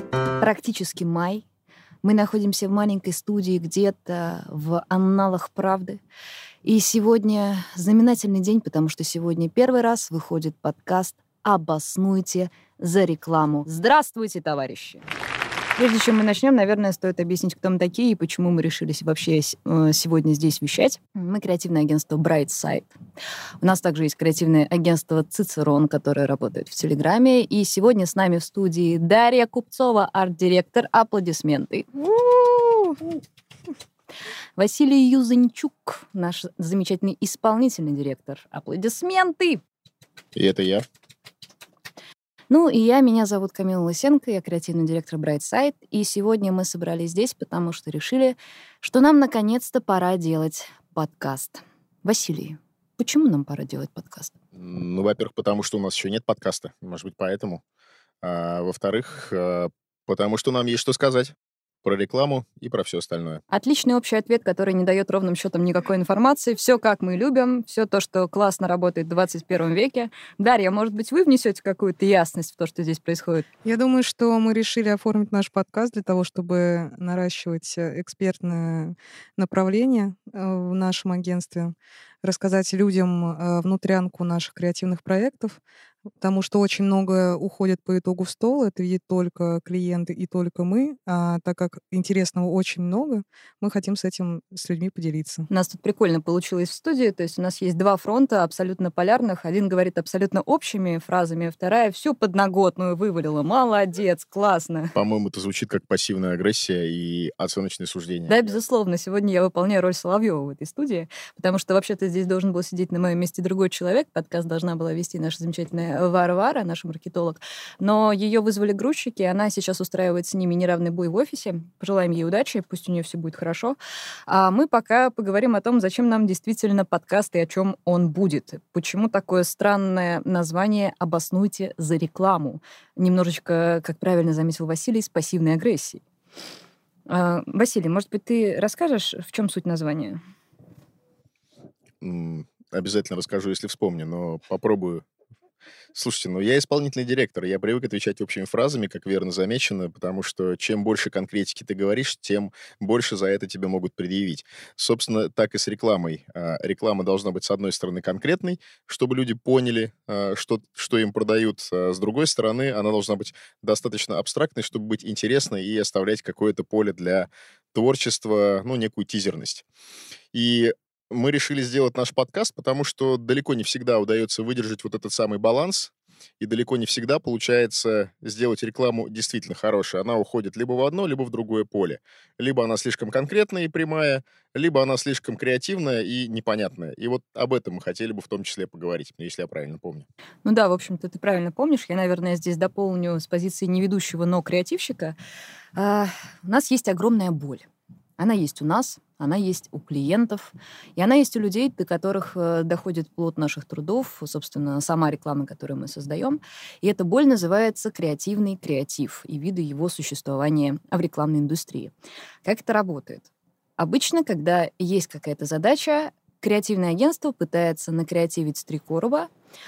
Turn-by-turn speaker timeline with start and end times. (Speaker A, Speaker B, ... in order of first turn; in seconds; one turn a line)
Speaker A: 0.4-1.4
Speaker A: 2.0-6.0
Speaker A: 6.6-15.0
Speaker A: 15.8-22.9
Speaker A: 23.6-31.9
Speaker B: 32.1-33.0
Speaker A: 34.6-39.6
Speaker C: 40.4-40.9
Speaker A: 42.5-54.4
Speaker C: 54.5-57.6
Speaker C: 58.2-63.4
Speaker A: 63.5-73.5
Speaker B: 73.7-85.6
Speaker B: 86.2-95.5
Speaker A: 95.5-105.0
Speaker C: 105.0-108.6
Speaker A: 108.3-123.8
Speaker A: 124.3-136.0
Speaker A: 137.1-140.2
Speaker C: 142.0-145.1
Speaker C: 145.9-169.6
Speaker C: 170.3-190.0
Speaker A: 190.4-195.2
Speaker A: 195.8-197.7
Speaker A: 198.2-211.9
Speaker A: 212.4-219.3